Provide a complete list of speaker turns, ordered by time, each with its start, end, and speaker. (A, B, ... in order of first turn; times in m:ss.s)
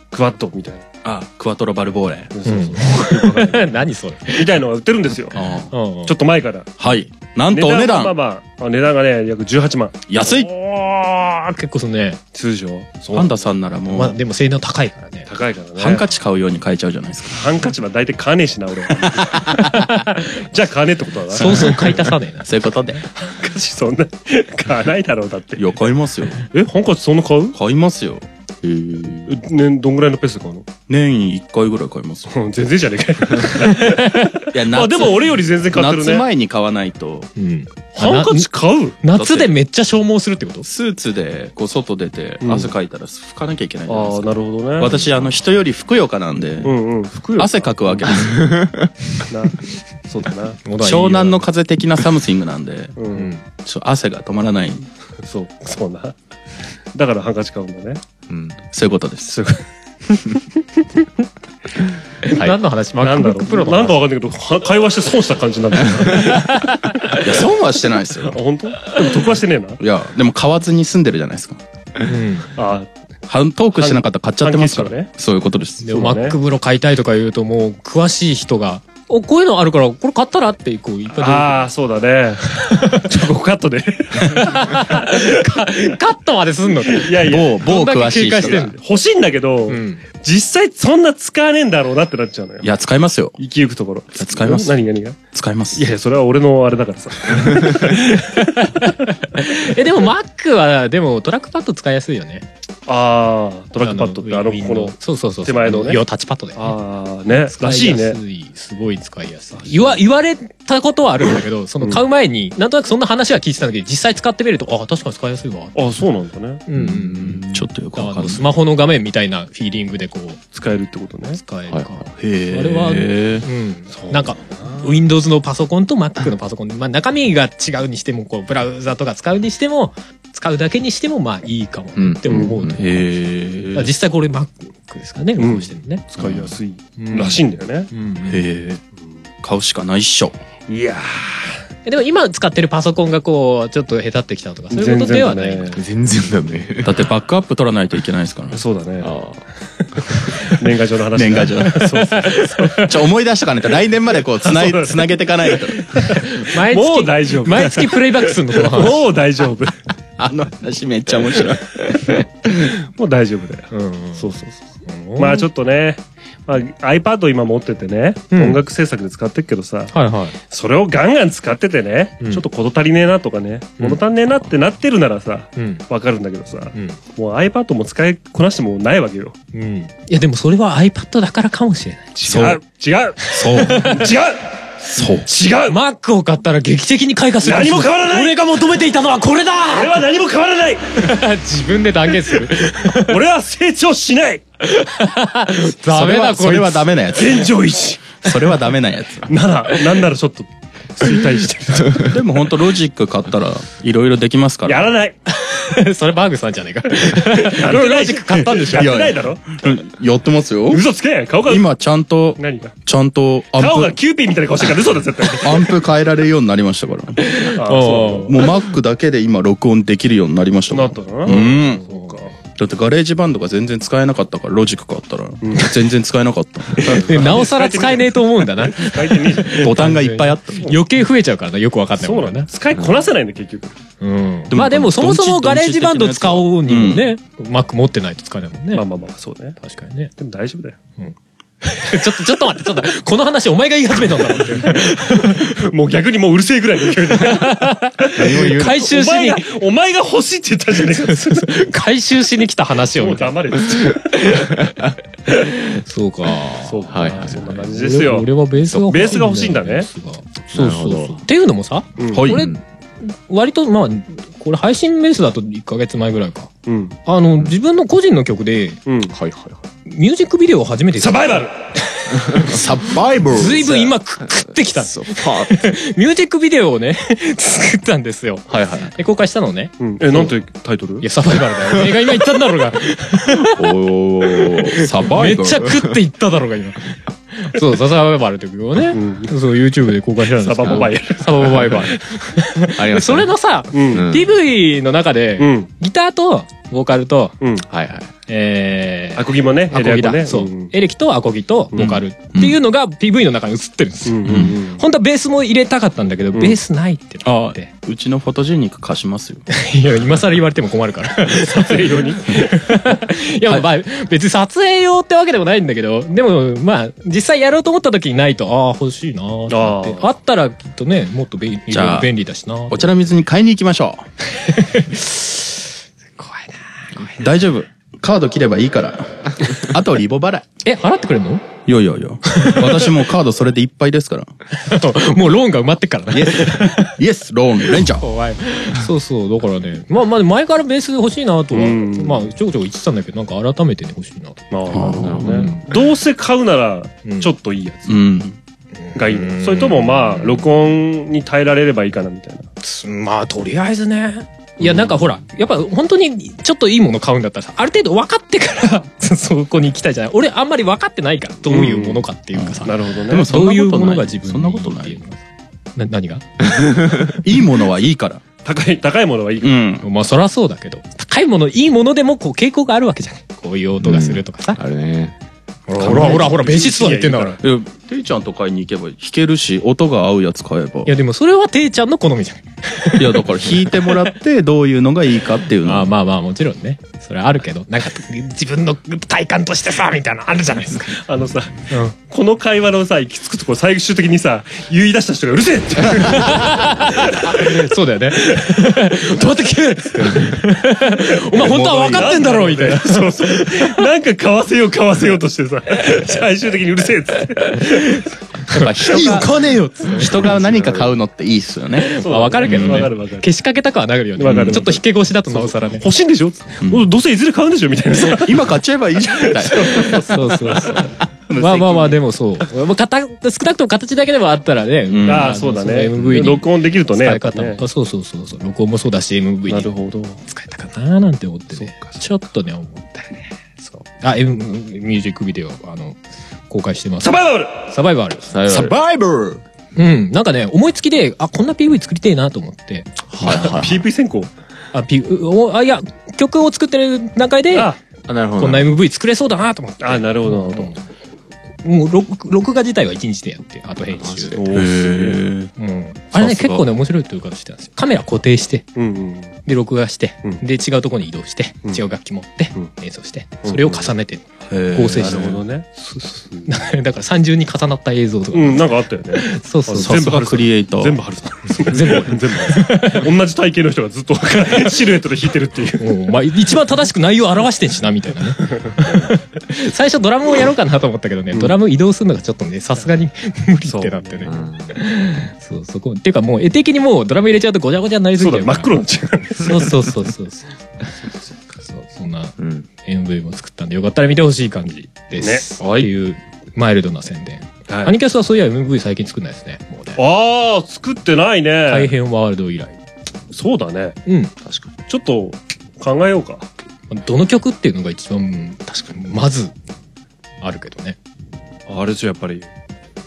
0:00.1-0:00.8 A
0:01.0-0:02.3 B
0:02.3-0:03.8 A
0:02.4-0:04.4 C
0:04.3-0:05.4 A
0:05.3-0:05.7 B
0:05.7-0:06.1 C
0:06.0-0:06.7 A
0:06.8-0:08.1 B
0:07.5-0:10.3 A
0:10.1-0:10.5 B
0:10.5-0:12.2 C
0:12.3-0:13.3 A
0:13.1-0:14.2 B
0:13.9-0:15.3 C
0:15.3-0:16.0 A
0:15.8-0:17.5 B
0:17.4-0:19.5 A
0:19.2-0:19.8 B
0:19.7-0:20.2 C
0:20.5-0:21.7 A
0:21.3-0:23.0 B
0:21.4-0:22.5 C
0:23.1-0:25.7 A
0:25.6-0:26.4 B
0:26.5-0:27.6 A
0:27.5-0:29.2 B
0:29.3-0:30.7 A
0:30.9-0:32.3 B
0:32.3-0:36.2 A
0:33.6-0:34.3 C
0:34.5-0:37.3 B
0:37.4-0:38.5 C
0:38.0-0:39.0 A
0:39.0-0:40.7 C
0:39.2-0:39.5 B
0:40.6-0:46.7 B
0:42.4-0:42.7 A
0:43.9-0:45.0 A
0:46.6-0:48.1 A
0:47.4-0:48.4 B
0:48.1-0:48.9 D
0:49.3-0:50.6 A
0:50.6-0:51.4 C
0:50.8-0:52.9 B
0:53.0-0:53.3 A
0:53.1-0:53.4 C
0:53.6-0:54.9 B
0:55.2-0:56.2 A
0:56.9-0:58.0 A
0:58.3-0:58.6 D
0:58.7-0:59.4 B
0:59.3-0:59.6 A
1:02.2-1:04.0 C
1:02.3-1:02.6 D
1:03.0-1:06.5 A
1:06.1-1:07.2 C
1:07.2-1:08.4 B
1:08.2-1:09.8 A
1:09.8-1:11.6 B
1:12.1-1:12.5 C
1:12.5-1:12.9 A
1:13.3-1:15.9 B
1:13.7-1:15.1 A
1:15.8-1:21.7 C
1:15.9-1:16.4 A
1:21.1-1:25.2 A
1:22.7-1:23.0 C
1:24.3-1:28.8 C
1:26.9-1:27.6 A
1:27.3-1:28.7 B
1:28.4-1:32.7 A
1:29.7-1:30.0 C
1:32.6-1:33.4 B
1:33.4-1:35.2 A
1:34.2-1:35.9 B
1:35.7-1:38.4 A
1:38.2-1:42.4 C
1:42.9-1:46.0 A
1:43.8-1:46.8 C
1:46.6-1:48.2 A
1:47.3-1:55.8 C
1:49.5-1:50.0 A
1:55.7-1:56.6 A
1:56.7-1:57.4 C
1:56.7-1:57.7 D
1:57.4-1:58.4 B
1:58.0-2:00.4 C
2:00.5-2:01.4 A
2:01.3-2:13.0 C
2:01.7-2:02.0 D
2:02.2-2:03.4 B
2:03.9-2:04.9 A
2:12.0-2:12.8 D
2:12.3-2:13.9 B
2:13.7-2:16.0 C
2:15.4-2:17.9 A
2:16.2-2:16.5 D
2:17.0-2:18.4 C
2:18.3-2:18.8 B
2:19.4-2:20.3 B
2:20.7-2:21.5 A
2:21.8-2:25.8 C
2:24.7-2:25.8 A
2:25.7-2:27.1 D
2:26.8-2:28.6 B
2:28.5-2:29.2 A
2:29.0-2:29.4 D
2:30.1-2:32.8 A
2:31.2-2:32.0 B
2:32.6-2:32.9 C
2:32.8-2:36.1 B
2:34.4-2:35.1 A
2:35.7-2:39.8 A
2:36.2-2:39.1 C
2:40.2-2:42.2 B
2:43.0-2:44.6 A
2:43.7-2:44.3 C
2:44.8-2:45.4 C
2:45.2-2:59.3 A
2:48.3-2:48.6 C
2:49.9-2:50.4 C
2:55.6-2:55.8 C
2:59.5-3:02.6 C
3:02.2-3:05.8 A
3:02.3-3:02.6 B
3:03.2-3:04.1 C
3:05.6-3:10.0 C
3:07.4-3:08.4 A
3:09.7-3:11.1 A
3:11.0-3:13.1 C
3:13.0-3:14.4 A
3:14.7-3:17.0 C
3:15.9-3:17.5 B
3:17.1-3:18.2 A
3:18.2-3:19.3 B
3:19.3-3:22.1 A
3:22.0-3:24.9 B
3:24.6-3:25.2 A
3:25.3-3:28.9 C
3:27.0-3:29.6 A
3:28.4-3:30.8 B
3:30.7-3:31.6 A
3:31.5-3:33.9 B
3:32.4-3:32.7 A
3:33.6-3:35.7 A
3:35.4-3:37.5 B
3:37.3-3:38.4 C
3:37.6-3:38.4 A
3:38.3-3:41.8 B
3:40.7-3:42.3 A
3:41.3-3:42.3 C
3:42.6-3:47.5 B
3:45.4-3:45.7 A
3:46.7-3:49.7 A
3:46.8-3:52.5 C
3:49.6-3:50.6 B
3:50.5-3:50.8 A
3:52.0-3:53.8 A
3:52.7-3:53.0 D
3:54.0-3:58.8 C
3:54.5-3:57.1 B
3:58.7-3:59.6 A
3:59.6-4:00.1 C
4:00.2-4:00.8 A
4:01.0-4:05.6 C
4:05.4-4:11.5 A
4:07.2-4:09.5 C
4:08.1-4:08.8 D
4:11.0-4:14.6 C
4:13.0-4:14.2 A
4:15.3-4:26.5 C
4:16.6-4:18.3 A
4:16.9-4:17.7 D
4:18.7-4:19.2 D
4:18.8-4:19.9 A
4:20.5-4:21.2 D
4:22.0-4:22.3 A
4:22.1-4:22.4 B
4:22.3-4:22.6 D
4:26.6-4:27.0 A
4:27.0-4:28.8 C
4:28.8-4:29.1 A
4:29.1-4:29.6 D
4:29.8-4:31.5 C
4:31.0-4:31.6 A
4:32.1-4:35.7 D
4:32.5-4:33.9 B
4:33.3-4:40.3 C
4:38.5-4:38.9 D
4:39.8-4:41.0 A
4:41.0-4:43.6 C
4:43.5-4:46.0 D
4:44.4-4:57.4 C
4:44.8-4:45.6 B
4:48.9-4:49.3 A
4:50.2-4:52.0 A
4:50.6-4:51.7 D
4:52.7-4:54.3 D
4:53.7-4:54.0 A
4:55.4-4:55.7 A
4:57.4-4:57.7 A
4:57.7-4:58.1 D
4:58.3-5:07.7 C
4:59.2-5:00.7 A
5:01.7-5:02.6 B
5:04.0-5:04.8 A
5:04.3-5:04.6 B
5:07.2-5:09.4 B
5:09.5-5:22.8 C
5:11.3-5:12.4 A
5:19.5-5:20.0 A
5:21.7-5:22.1 B
5:22.7-5:24.0 B
5:24.4-5:25.4 C
5:26.2-5:27.3 C
5:27.0-5:30.5 B
5:30.6-5:31.4 C
5:31.6-5:34.3 B
5:32.3-5:32.9 C
5:34.6-5:36.9 C
5:36.1-5:38.1 B
5:38.0-5:45.6 C
5:41.5-5:42.3 A
5:44.5-5:48.0 A
5:44.7-5:45.4 B
5:45.0-5:45.5 D
5:47.0-5:47.3 C
5:47.9-5:48.4 B
5:48.8-5:50.2 C
5:49.0-5:52.5 A
5:52.6-6:05.2 C
6:01.5-6:02.0 A
6:02.3-6:05.0 B
6:02.6-6:03.3 A
6:05.8-6:06.2 C
6:06.4-6:07.2 D
6:07.2-6:08.2 B
6:08.4-6:09.5 A
6:09.4-6:09.8 B
6:09.8-6:14.6 C
6:13.8-6:15.1 D
6:15.7-6:17.4 C
6:15.8-6:16.3 B
6:15.8-6:17.4 A
6:17.4-6:20.9 B
6:20.8-6:24.0 C
6:23.0-6:25.9 B
6:25.6-6:31.0 C
6:31.0-6:37.7 A
6:36.1-6:43.8 C
6:41.3-6:48.0 A
6:41.4-6:42.2 B
6:48.5-6:50.2 C
6:48.5-6:49.3 B
6:49.9-6:52.9 B
6:50.2-6:50.8 A
6:50.2-6:50.9 D
6:51.9-6:53.3 A
6:52.0-6:55.8 C
6:54.2-6:58.4 A
6:54.3-6:54.6 B
6:58.0-7:00.0 B
6:59.3-7:00.8 A
6:59.8-7:09.7 C
7:01.0-7:02.0 B
7:04.9-7:05.4 B
7:05.1-7:07.6 A
7:06.0-7:06.3 B
7:09.5-7:10.2 A
7:10.2-7:16.0 C
7:11.5-7:12.0 A
7:16.5-7:18.3 C
7:17.0-7:17.7 A
7:18.3-7:18.8 D
7:18.5-7:19.4 B
7:19.8-7:23.5 C
7:23.1-7:23.8 D
7:23.2-7:24.3 A
7:24.7-7:27.7 C
7:27.5-7:27.8 A
7:28.0-7:28.7 D
7:28.4-7:30.8 C
7:29.8-7:30.7 A
7:31.6-7:34.4 C
7:33.9-7:34.7 D
7:34.3-7:35.2 A
7:34.5-7:35.5 B
7:35.6-7:38.7 C
7:36.1-7:36.6 B
7:38.7-7:39.3 A
7:39.4-7:45.3 C
7:43.4-7:43.9 A
7:44.5-7:45.4 B
7:45.0-7:46.5 A
7:46.4-7:50.0 C
7:48.3-7:55.9 A
7:49.8-7:51.0 B
7:51.7-7:53.0 C
7:55.8-8:08.7 C
8:03.7-8:04.5 A
8:04.2-8:04.8 D
8:08.2-8:10.0 A
8:09.4-8:10.5 C
8:11.7-8:20.0 C
8:12.4-8:12.6 D
8:15.2-8:15.9 A
8:17.7-8:17.9 A
8:20.0-8:21.9 A
8:21.7-8:22.7 C
8:23.3-8:24.0 A
8:24.1-8:24.3 C
8:24.4-8:24.7 D
8:24.9-8:26.5 A
8:26.9-8:29.5 C
8:28.7-8:29.0 D
8:30.4-8:31.0 C
8:31.7-8:32.5 A